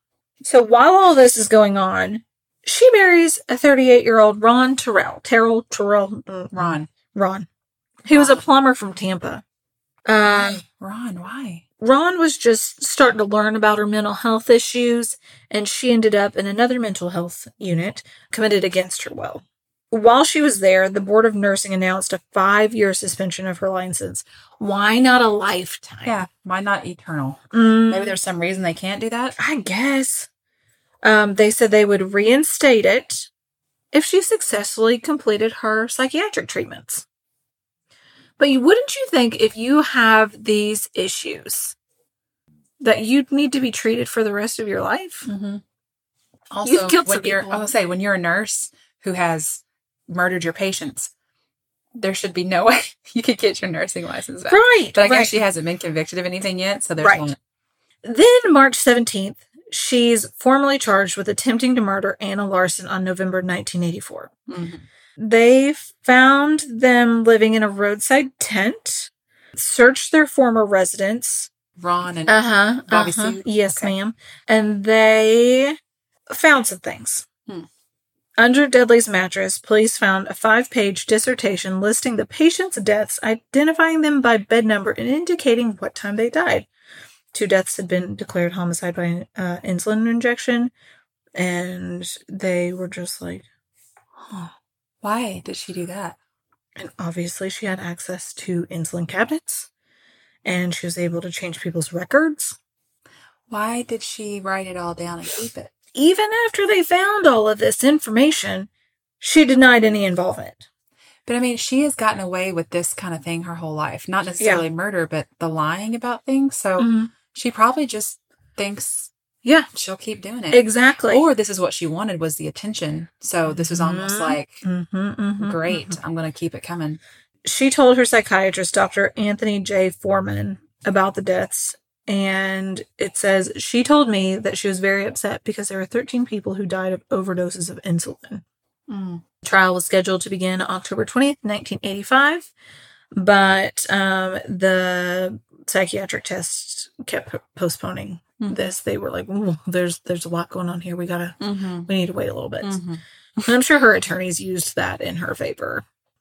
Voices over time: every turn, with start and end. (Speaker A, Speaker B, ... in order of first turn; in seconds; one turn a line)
Speaker A: 0.4-7.5
Speaker B: 6.5-6.9
Speaker B: 8.1-8.4
Speaker A: 8.1-9.4
Speaker A: 10.0-10.6
Speaker B: 10.2-11.6
Speaker A: 11.8-26.2
Speaker B: 26.0-29.4
Speaker A: 27.5-28.2
Speaker A: 29.4-30.3
Speaker A: 31.0-33.3
Speaker A: 33.9-37.0
Speaker A: 38.4-41.7
Speaker A: 42.8-45.3
Speaker B: 45.2-45.6
Speaker B: 46.5-51.1
Speaker A: 46.6-47.7
Speaker B: 51.9-57.4
Speaker A: 54.5-55.4
Speaker A: 57.0-57.3
Speaker A: 58.0-64.3
Speaker B: 64.5-64.8
Speaker A: 65.2-71.5
Speaker B: 71.8-73.9
Speaker A: 72.3-75.8
Speaker A: 76.3-77.2
Speaker A: 78.4-86.7
Speaker A: 87.3-90.7
Speaker A: 91.3-93.4
Speaker A: 94.2-94.5
Speaker B: 95.0-96.2
Speaker A: 96.8-99.7
Speaker A: 100.4-102.5
Speaker B: 103.5-105.7
Speaker A: 105.9-108.7
Speaker A: 109.2-110.6
Speaker B: 111.2-119.1
Speaker A: 114.4-114.6
Speaker A: 116.8-117.1
Speaker A: 119.4-119.7
Speaker B: 119.7-124.6
Speaker A: 120.5-121.2
Speaker A: 123.5-126.0
Speaker B: 125.4-127.0
Speaker A: 127.4-138.4
Speaker B: 138.9-139.2
Speaker A: 139.2-142.5
Speaker A: 143.1-152.8
Speaker B: 148.4-148.7
Speaker B: 151.4-151.9
Speaker B: 152.6-153.5
Speaker A: 153.4-155.8